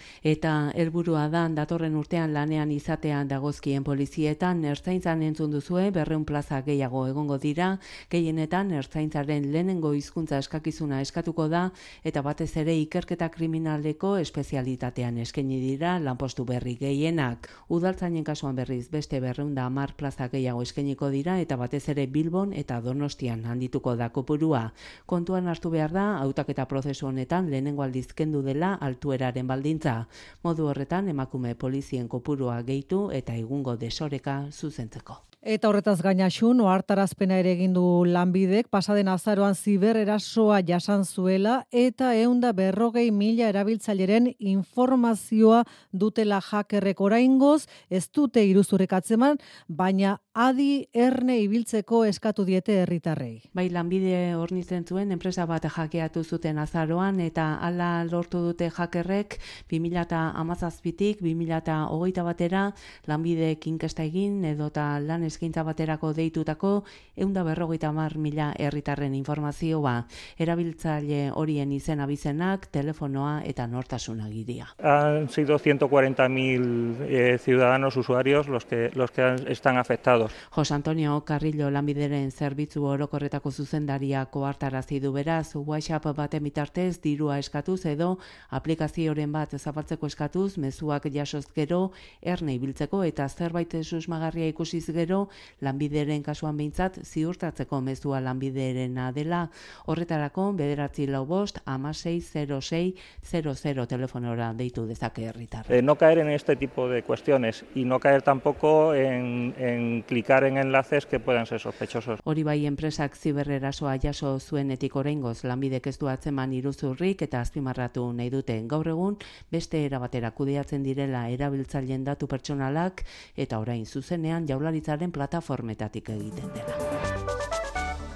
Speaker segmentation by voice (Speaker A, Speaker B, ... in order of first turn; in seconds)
Speaker A: 0.2-35.2, 53.5-74.7, 80.5-105.8, 112.3-126.8
Speaker B: 35.4-53.4
Speaker C: 74.8-80.3, 105.7-112.2